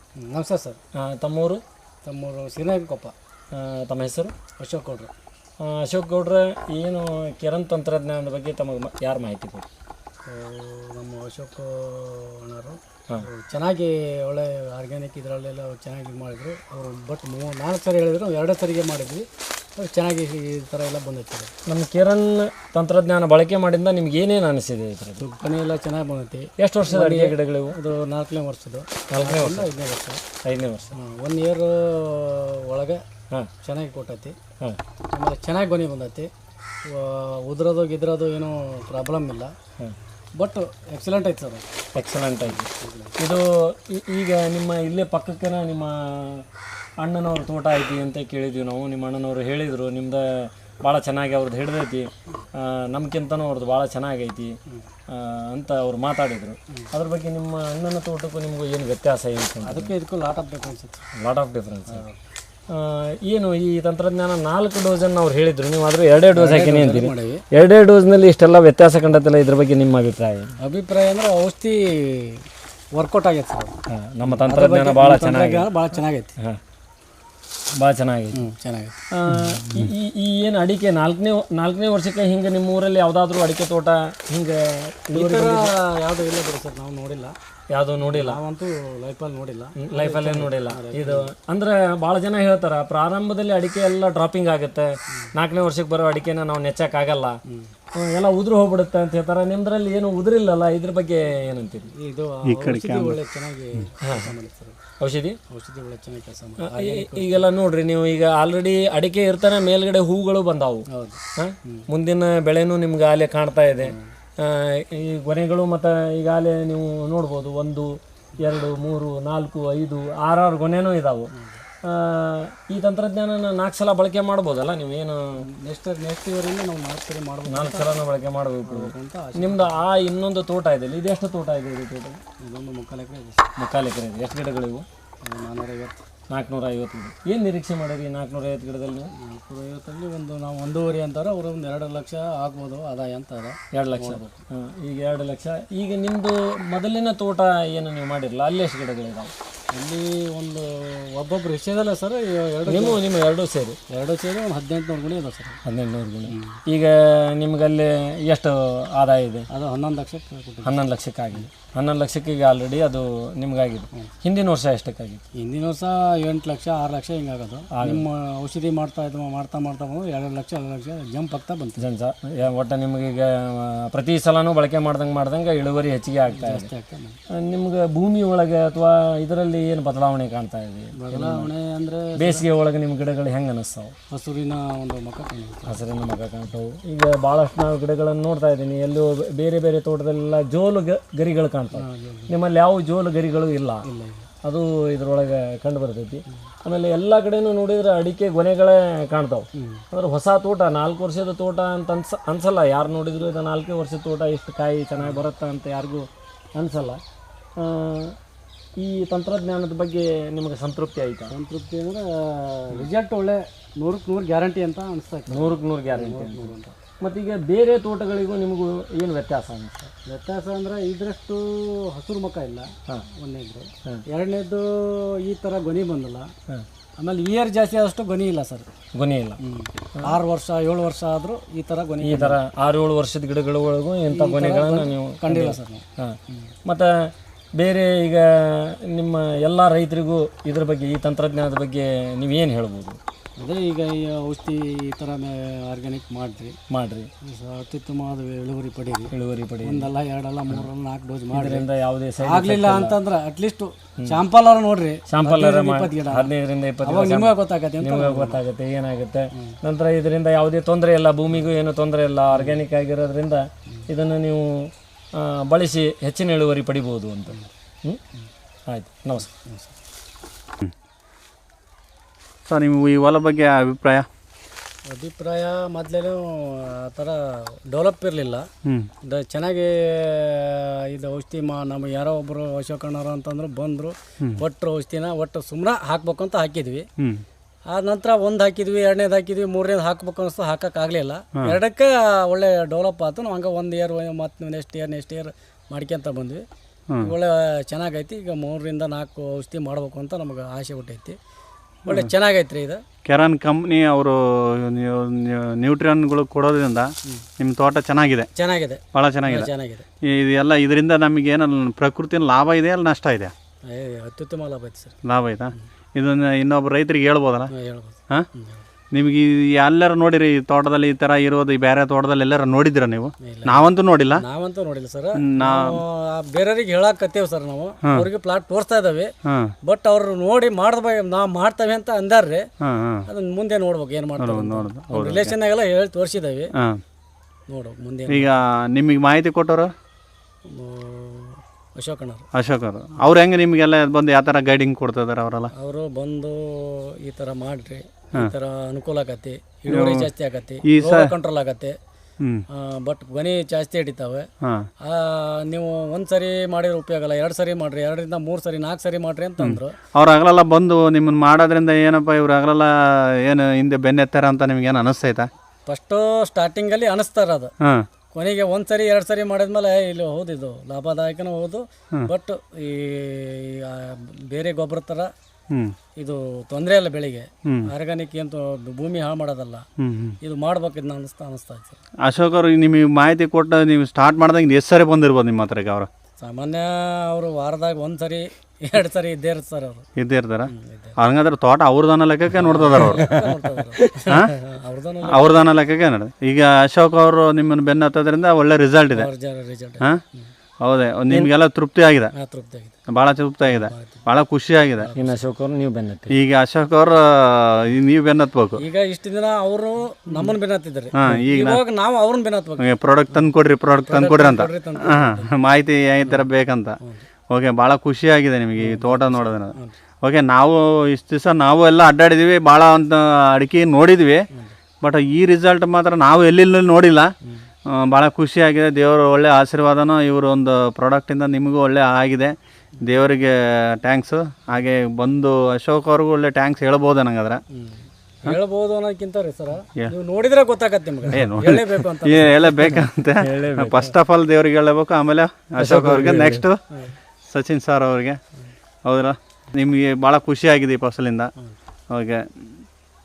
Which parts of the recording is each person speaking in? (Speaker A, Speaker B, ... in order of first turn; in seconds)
Speaker A: 0.2-0.8, 2.0-3.1, 4.6-5.1, 10.3-19.2, 19.8-21.5, 25.2-30.2, 30.9-33.0, 33.6-34.4, 35.1-36.3, 36.9-39.5, 40.4-41.6, 42.5-43.2, 59.6-61.0, 61.9-62.2, 66.3-67.4, 70.6-76.3, 78.3-79.9, 85.1-87.3, 88.0-91.3, 97.5-97.7, 102.0-104.8, 105.5-107.5, 110.9-111.9, 113.8-114.1, 121.3-121.6, 125.4-128.1, 128.6-129.8, 132.4-133.4, 135.2-136.0, 139.1-144.4, 149.7-153.0, 153.9-155.6, 156.3-156.6, 159.5-160.8, 165.4-171.9, 176.3-177.2, 181.0-182.4, 184.1-185.8, 191.8-192.3, 193.8-194.3, 199.6-199.8, 211.3-216.8, 220.1-226.3, 227.0-228.7, 229.4-232.4, 234.1-236.5, 243.4-246.6, 247.2-249.1, 249.6-251.7, 252.2-256.3, 256.8-258.4, 262.3-262.6, 269.3-269.8, 274.9-278.5, 279.0-286.9, 287.7-296.4, 297.0-301.2, 301.9-302.8, 308.3-309.9, 313.6-315.0, 317.5-318.6, 323.2-329.1, 329.6-332.4, 333.1-336.5, 337.5-338.3, 340.4-342.2, 345.5-351.8, 352.5-354.3, 354.8-359.8, 365.7-367.5, 368.1-375.1, 376.0-379.7, 380.2-381.8, 386.2-389.9, 390.5-390.9, 392.3-395.5, 398.9-400.3, 402.1-402.8, 403.4-404.0, 404.8-405.2, 408.6-413.3, 413.8-415.3, 418.6-419.8, 437.5-442.8
Speaker B: 0.9-1.6, 3.5-4.3, 5.6-9.7, 21.7-25.2, 26.6-27.8, 29.1-29.7, 30.4-31.0, 42.0-42.7, 43.2-46.5, 47.0-54.5, 55.1-59.9, 61.2-62.0, 62.7-70.5, 73.9-75.7, 77.8-78.4, 79.1-85.7, 87.7-88.4, 89.8-97.4, 97.9-101.9, 104.0-104.3, 105.0-105.4, 106.6-110.8, 111.4-121.3, 121.8-125.4, 127.5-132.2, 133.6-134.9, 136.3-139.1, 143.7-149.3, 152.7-153.8, 155.7-159.5, 160.6-165.2, 167.7-168.1, 171.8-176.7, 177.3-181.5, 182.2-183.9, 185.7-193.8, 194.4-207.0, 207.6-208.2, 208.8-211.3, 215.3-219.9, 228.9-229.4, 232.0-243.0, 246.7-247.1, 249.1-249.9, 251.3-253.0, 255.1-268.0, 268.7-269.3, 392.8-393.1, 404.9-406.2, 443.2-443.9, 445.6-446.4
Speaker C: 102.5-103.2, 272.5-274.1, 303.1-308.3, 308.9-309.5, 310.1-313.3, 315.0-317.5, 318.9-324.2, 325.2-325.8, 329.2-329.5, 332.6-333.1, 334.2-335.3, 338.1-339.7, 342.3-345.5, 349.7-350.1, 350.6-351.1, 354.4-354.7, 359.4-365.3, 379.8-380.2, 382.0-385.9, 390.0-393.0, 395.1-399.1, 400.6-402.1, 402.9-404.9, 406.1-408.6, 410.9-411.6, 412.6-416.8, 417.3-424.2, 424.8-427.1, 427.7-437.4, 441.1-446.6, 447.3-448.2, 448.9-451.3, 451.9-452.2